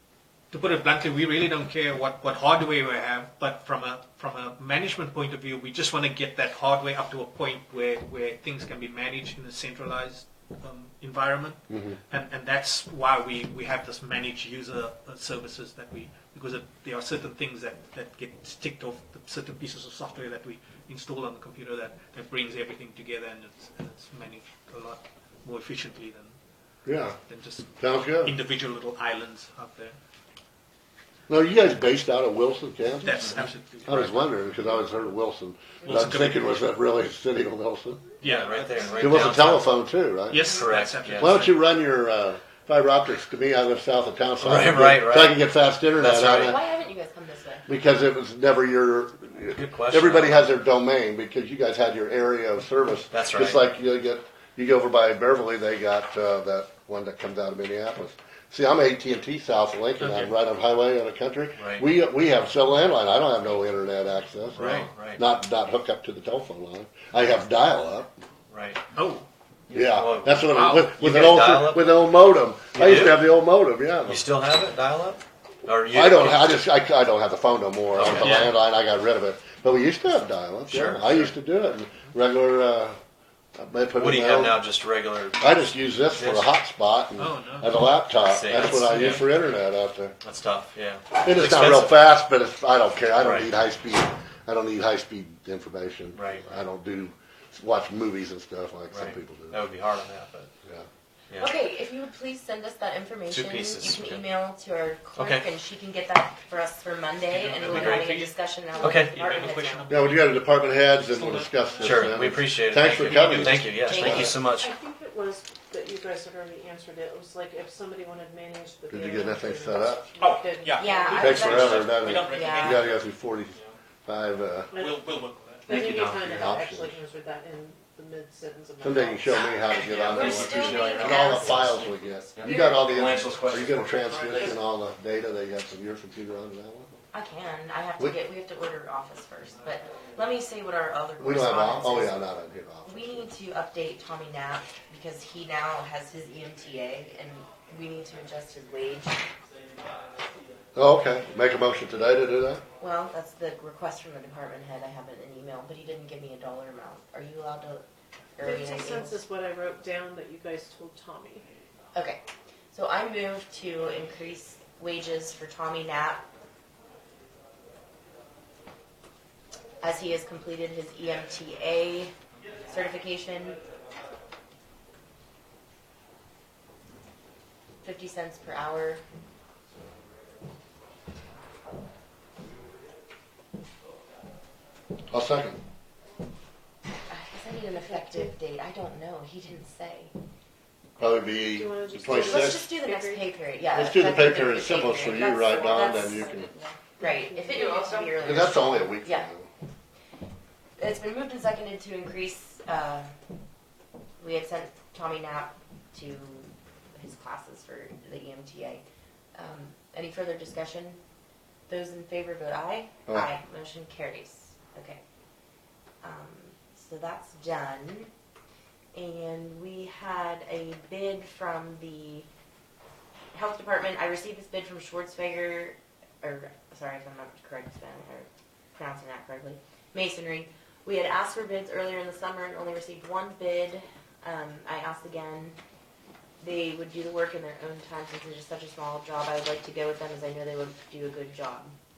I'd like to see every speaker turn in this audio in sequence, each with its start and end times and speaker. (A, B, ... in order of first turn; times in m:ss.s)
0:00.5-0:26.4 A
0:11.7-0:12.0 B
0:26.8-0:27.2 B
0:27.2-0:30.0 A
0:27.8-0:28.4 B
0:31.3-0:38.1 B
0:33.0-0:34.3 A
0:35.8-0:36.7 A
0:38.2-0:39.3 A
0:38.2-0:39.8 C
0:39.0-0:40.6 B
0:40.3-0:41.6 A
0:40.4-0:41.4 C
0:41.1-0:46.6 B
0:44.4-0:45.4 C
0:45.9-0:46.6 C
0:46.3-0:47.7 D
0:47.7-1:08.1 B
0:49.5-0:50.5 C
0:53.1-0:53.6 C
1:00.0-1:00.3 A
1:01.6-1:01.9 C
1:04.5-1:05.2 C
1:08.5-1:08.8 C
1:08.9-1:09.2 A
1:09.7-1:12.0 C
1:09.7-1:14.2 B
1:10.5-1:10.8 A
1:12.7-1:13.3 C
1:14.0-1:16.6 C
1:15.9-1:23.0 B
1:17.9-1:18.5 C
1:18.2-1:18.5 A
1:20.7-1:21.3 C
1:23.6-1:24.6 B
1:23.9-1:25.5 C
1:25.4-1:30.2 B
1:26.1-1:26.5 C
1:27.2-1:27.8 A
1:28.2-1:29.2 C
1:28.9-1:29.2 A
1:30.2-1:32.0 C
1:31.2-1:39.6 B
1:33.2-1:33.5 C
1:36.1-1:36.6 C
1:38.9-1:40.5 C
1:41.3-1:41.6 C
1:41.4-1:49.9 D
1:43.3-1:44.3 C
1:45.2-1:45.5 C
1:47.3-1:52.1 A
1:47.6-1:48.1 C
1:48.8-1:49.1 C
1:49.9-1:54.4 B
1:51.8-1:54.7 C
1:53.0-1:53.7 A
1:53.7-1:54.5 D
1:54.6-2:01.3 E
1:58.9-2:00.0 B
2:00.2-2:02.9 A
2:00.8-2:02.8 D
2:01.1-2:04.7 B
2:04.7-2:05.0 E
2:04.7-2:05.8 A
2:05.6-2:09.3 E
2:05.7-2:07.0 B
2:05.7-2:06.2 C
2:08.8-2:17.0 B
2:09.3-2:11.7 D
2:09.7-2:14.6 C
2:12.4-2:12.8 D
2:17.1-2:22.2 D
2:21.2-2:23.2 B
2:22.8-2:29.2 D
2:30.8-2:32.6 B
2:32.8-2:39.2 D
2:38.4-2:41.4 E
2:41.9-2:42.2 D
2:42.7-2:46.2 D
2:49.8-2:52.1 D
2:52.7-2:53.6 D
2:57.8-2:59.0 D
3:05.1-3:05.6 B
3:07.1-3:10.1 D
3:07.7-3:08.3 E
3:11.0-3:12.7 B
3:11.5-3:13.3 E
3:12.1-3:19.3 D
3:13.7-3:16.5 B
3:17.0-3:18.1 E
3:18.2-3:19.5 B
3:20.8-3:23.1 D
3:24.2-3:28.8 D
3:29.3-3:31.0 D
3:31.7-3:35.0 D
3:36.0-3:38.1 D
3:38.9-3:42.2 D
3:43.3-3:55.6 D
3:56.4-4:01.7 D